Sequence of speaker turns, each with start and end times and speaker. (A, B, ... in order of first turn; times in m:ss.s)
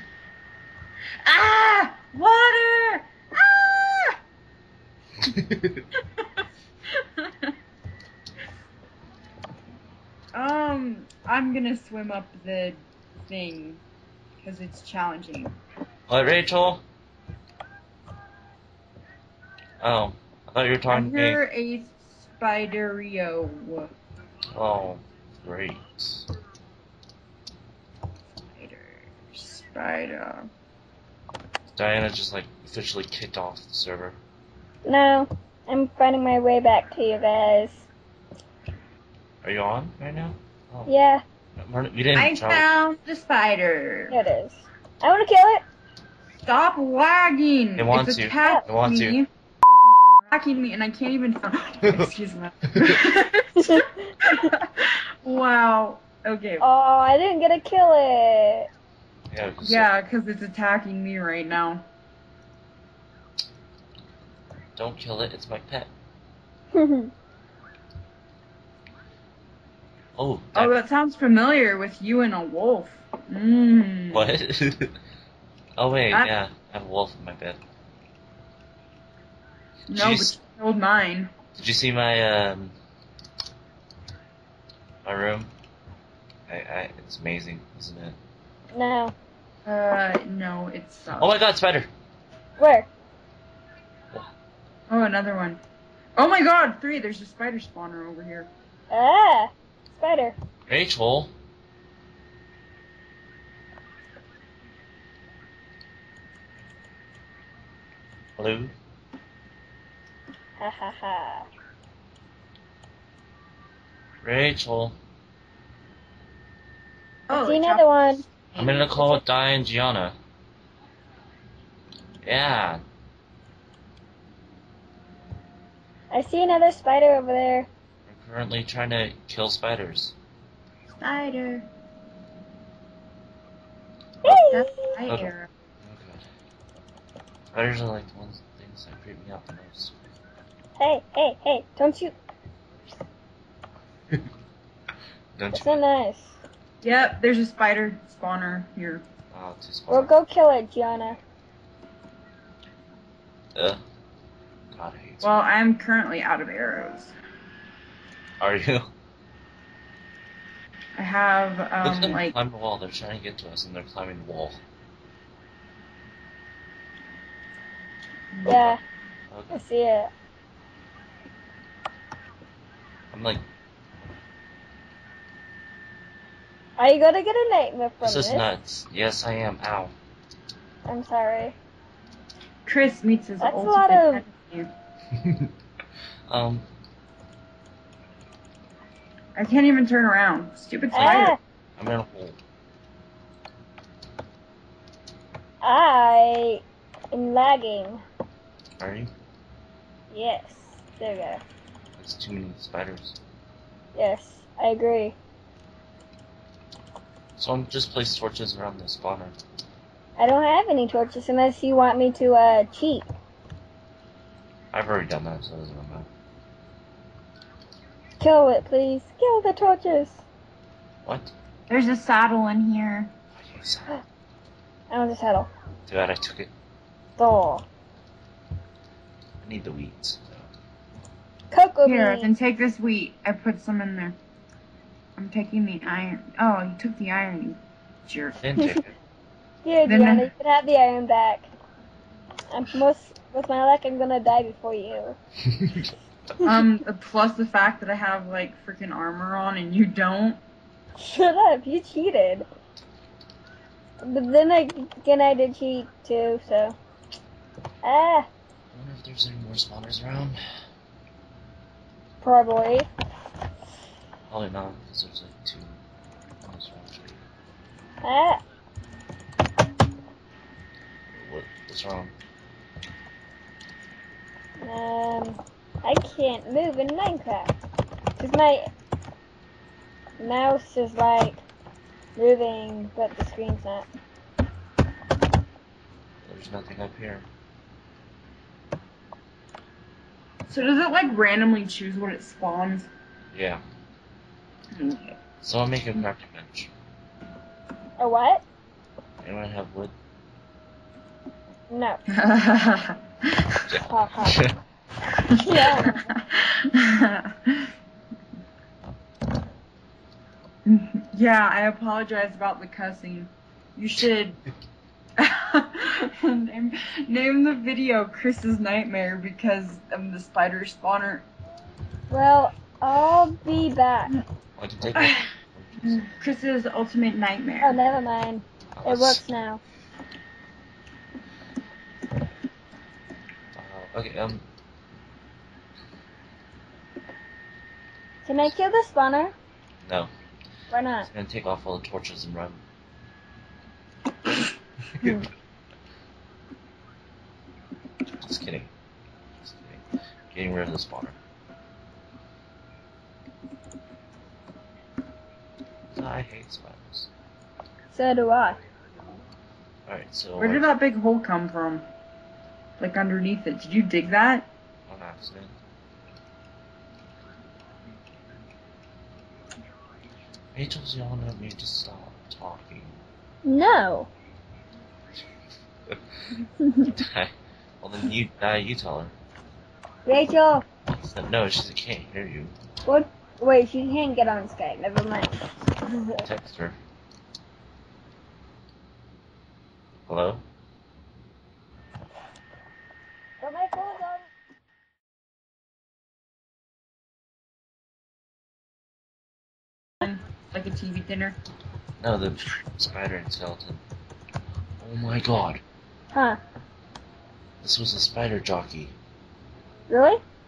0:01.2-0:04.2 A
0:05.4-0:05.8 B
0:07.0-0:07.5 A
0:10.3-0:13.8 A
0:14.4-0:15.6 A
0:16.1-0:16.8 B
0:19.8-0:21.4 B
0:20.9-0:23.9 A
0:24.5-0:26.3 B
0:28.6-0:30.5 A
0:31.7-0:34.2 B
0:34.8-0:37.9 C
0:39.4-0:40.9 B
0:40.9-0:41.2 C
0:41.6-0:42.7 B
0:42.2-0:44.2 A
0:44.1-0:45.6 C
0:46.4-0:56.6 A
0:47.8-0:49.2 B
0:53.6-0:54.5 C
0:56.6-0:58.7 C
0:59.3-0:59.9 B
0:59.6-1:01.8 A
1:04.8-1:05.9 B
1:06.7-1:07.1 C
1:10.2-1:10.8 B
1:10.5-1:14.3 A
1:14.1-1:14.9 B
1:15.8-1:17.6 B
1:19.9-1:20.4 B
1:19.9-1:21.3 A
1:21.6-1:22.7 B
1:25.0-1:25.5 B
1:26.5-1:28.2 B
1:28.7-1:29.2 C
1:29.7-1:31.4 A
1:31.2-1:31.9 B
1:32.6-1:32.9 C
1:34.9-1:35.6 A
1:36.2-1:38.5 A
1:38.9-1:40.4 C
1:40.7-1:41.3 B
1:48.4-1:48.7 B
1:50.6-1:51.5 C
1:54.2-1:55.0 B
1:57.3-1:59.2 A
1:57.3-1:58.2 C
1:58.6-2:00.2 B
2:02.2-2:02.8 B
2:06.1-2:07.7 C
2:08.1-2:10.2 B
2:11.0-2:11.6 A
2:14.2-2:14.7 C
2:14.3-2:15.5 A
2:15.8-2:16.2 B
2:17.5-2:19.9 B
2:20.8-2:22.1 C
2:25.4-2:25.8 B
2:25.5-2:26.4 C
2:26.8-2:29.0 A
2:29.3-2:30.2 B
2:29.9-2:31.2 C
2:33.6-2:33.8 B
2:34.7-2:35.4 B
2:35.2-2:37.2 A
2:38.4-2:38.9 B
2:41.0-2:42.4 A
2:41.8-2:44.6 B
2:48.4-2:48.8 A
2:48.4-2:48.8 C
2:49.3-2:49.6 B
2:49.5-2:50.1 C
2:53.1-2:53.4 B
2:56.8-2:58.5 C
2:58.0-2:59.9 B
3:00.8-3:01.6 C
3:02.7-3:04.7 A
3:03.4-3:04.2 C
3:05.1-3:05.5 B
3:06.3-3:06.7 B
3:09.4-3:11.4 A
3:10.9-3:11.4 C
3:10.9-3:12.4 B
3:15.6-3:18.0 C
3:18.8-3:19.1 B
3:20.1-3:21.4 C
3:22.0-3:23.2 B
3:24.0-3:25.2 C
3:27.4-3:29.4 B
3:30.2-3:33.1 C
3:34.7-3:36.1 B
3:38.2-3:40.2 C
3:41.0-3:41.3 B
3:41.7-3:43.1 A
3:43.4-3:44.0 B
3:44.9-3:45.5 C
3:45.9-3:46.5 B
3:47.2-3:47.6 C
3:49.4-3:50.5 B
3:51.5-3:52.3 C
3:51.8-3:54.2 A
3:55.2-3:58.4 A
3:58.4-3:58.9 B
3:59.6-4:01.5 C
3:59.9-4:00.3 A
4:02.5-4:05.2 C
4:05.6-4:05.9 B
4:06.4-4:10.4 A
4:11.0-4:12.5 C
4:14.0-4:16.8 C
4:17.8-4:18.3 C
4:18.7-4:20.4 B
4:22.2-4:22.9 C
4:24.3-4:25.8 B
4:26.4-4:27.2 B
4:28.0-4:28.4 C
4:31.1-4:32.1 B
4:34.6-4:37.6 C
4:38.2-4:38.7 C
4:40.2-4:41.4 C
4:42.2-4:43.9 C
4:46.2-4:47.3 B
4:50.5-4:52.9 A
4:53.3-4:53.6 B
4:54.7-4:55.2 A
4:55.4-4:56.7 B
4:58.0-4:58.4 C
4:59.2-4:59.9 B
5:01.7-5:02.0 C
5:02.1-5:03.6 A
5:03.7-5:04.6 B
5:03.8-5:04.4 C
5:05.3-5:07.7 A
5:05.4-5:06.1 C
5:10.7-5:14.4 A
5:15.2-5:21.2 A
5:22.1-5:24.1 C
5:24.6-5:26.2 B
5:25.8-5:27.8 A
5:27.6-5:29.6 C
5:28.7-5:29.2 B
5:33.5-5:34.4 B
5:38.2-5:39.4 C
5:39.8-5:40.1 B
5:40.7-5:41.1 C
5:41.0-5:42.6 B
5:45.0-5:45.3 C
5:48.2-5:48.7 B
5:49.4-5:51.2 B
5:55.9-5:57.1 B
5:57.9-5:58.6 C
5:59.9-6:00.6 B
6:00.4-6:01.9 A
6:02.8-6:04.5 A
6:04.9-6:05.5 B
6:10.5-6:13.0 B
6:13.4-6:14.1 C
6:16.6-6:16.9 C
6:16.9-6:19.1 B
6:20.1-6:20.7 C
6:20.9-6:22.6 B
6:22.8-6:26.2 C
6:26.2-6:26.8 B
6:30.0-6:30.4 B
6:33.4-6:34.3 C
6:40.0-6:41.4 A
6:42.0-6:43.8 B
6:44.8-6:45.6 B
6:46.1-6:46.4 C
6:47.6-6:48.9 B
6:49.9-6:50.2 C